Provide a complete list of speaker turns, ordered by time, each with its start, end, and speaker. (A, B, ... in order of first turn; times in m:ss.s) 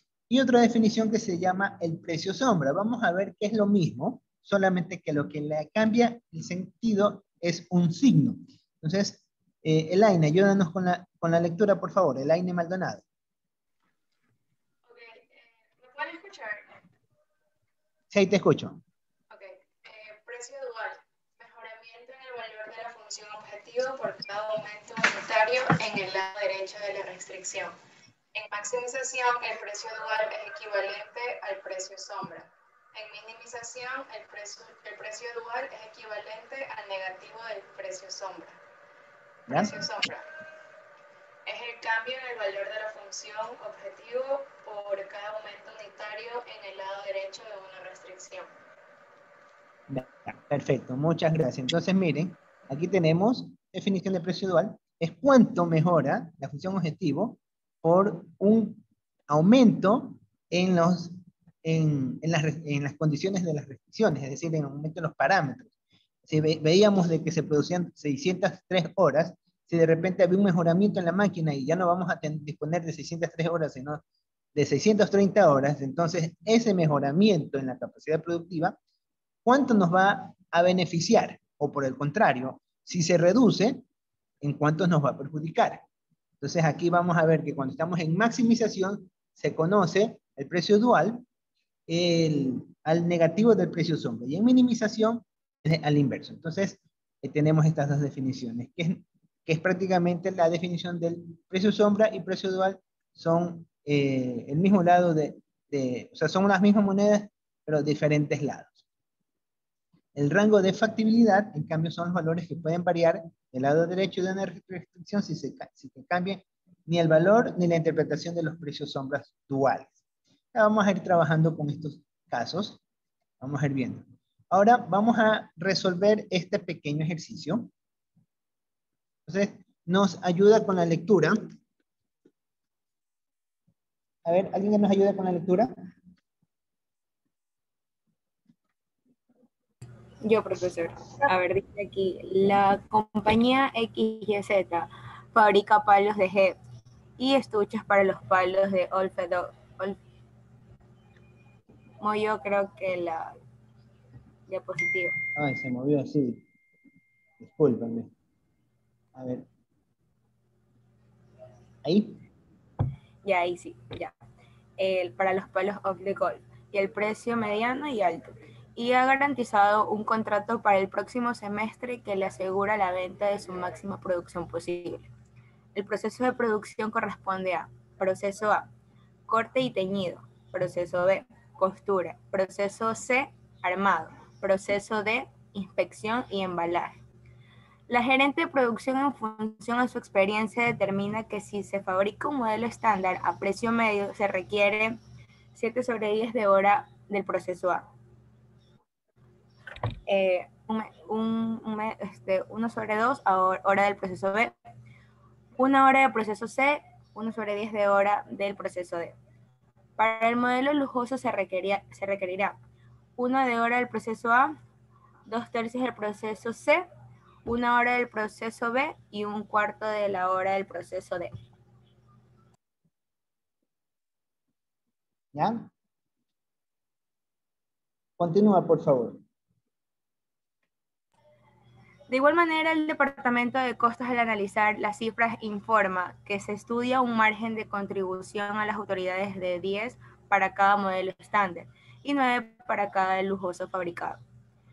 0:00.3-0:13.0 A
0:14.9-0:16.6 B
0:18.1-0:18.8 A
0:19.3-0:27.7 B
0:28.4-0:38.6 B
0:39.5-0:39.8 A
0:39.5-0:40.2 B
0:41.5-0:48.5 B
0:49.9-1:05.7 A
1:06.3-1:14.0 A
1:14.6-1:18.8 A
1:19.4-1:23.8 A
1:24.4-1:25.8 A
1:26.4-1:31.2 A
1:31.9-1:48.8 A
1:50.2-2:00.0 A
2:00.5-2:02.8 A
2:03.4-2:07.7 A
2:09.3-2:11.5 A
2:14.3-2:15.7 A
2:20.2-2:26.6 C
2:27.2-2:30.0 C
2:32.0-2:33.3 C
2:34.5-2:35.2 C
2:35.4-2:36.4 A
2:37.4-2:38.1 A
2:39.2-2:39.5 A
2:41.8-2:42.2 A
2:43.2-2:44.1 C
2:44.8-2:55.1 C
2:55.8-2:58.7 C
2:59.3-3:06.9 C
3:07.9-3:15.0 C
3:15.6-3:17.9 C
3:20.1-3:24.6 C
3:25.6-3:29.1 C
3:30.0-3:32.6 C
3:33.2-3:34.5 C
3:35.3-3:36.8 C
3:37.4-3:41.3 C
3:45.3-3:45.7 A
3:48.2-3:49.2 A
3:52.1-4:04.2 C